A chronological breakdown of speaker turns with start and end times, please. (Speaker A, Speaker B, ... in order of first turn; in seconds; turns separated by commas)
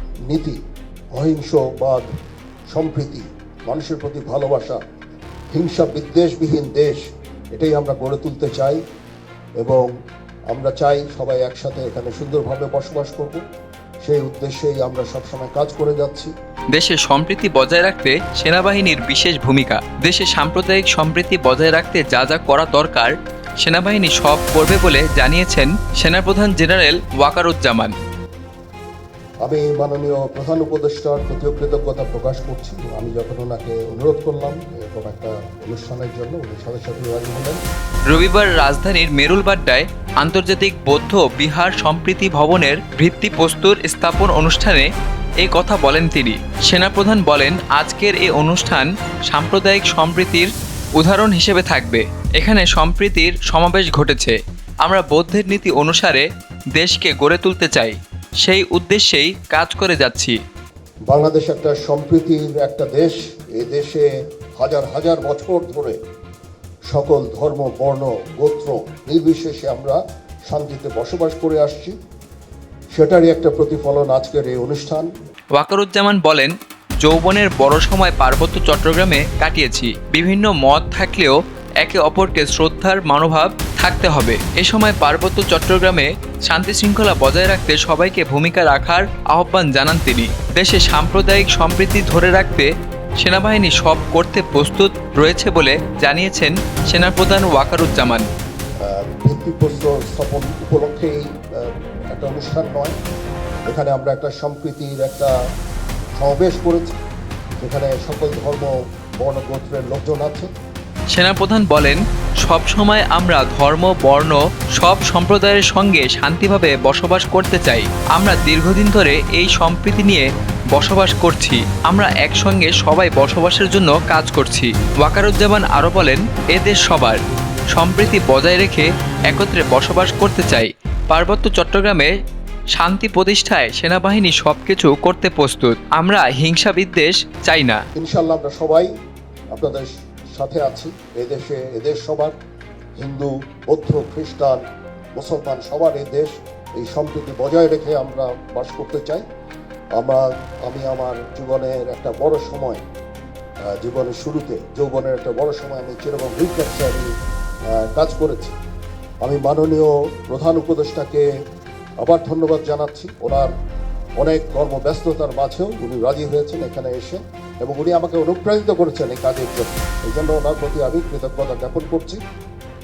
Speaker A: 0.3-0.6, Speaker A: 1.1-2.0, Speaker A: 2.7-4.8, Speaker A: 5.5-7.0, Speaker A: 7.5-8.8, Speaker A: 9.6-9.9, Speaker A: 10.5-13.4, Speaker A: 14.0-16.3, Speaker B: 16.7-27.9, Speaker A: 29.4-37.6, Speaker B: 38.1-60.4, Speaker A: 61.1-66.0, Speaker A: 66.9-71.9, Speaker A: 72.9-75.1, Speaker B: 75.5-98.3, Speaker A: 98.8-103.0, Speaker A: 103.7-105.3, Speaker A: 106.2-106.9, Speaker A: 107.6-110.5, Speaker B: 111.1-127.2, Speaker B: 127.7-132.1, Speaker B: 132.7-137.8, Speaker A: 138.0-138.9, Speaker A: 139.5-142.3, Speaker A: 143.0-144.6, Speaker A: 145.2-149.2, Speaker A: 150.0-152.8, Speaker A: 153.8-157.1, Speaker A: 157.8-158.6, Speaker A: 159.2-161.2, Speaker A: 162.0-163.5, Speaker A: 164.2-172.2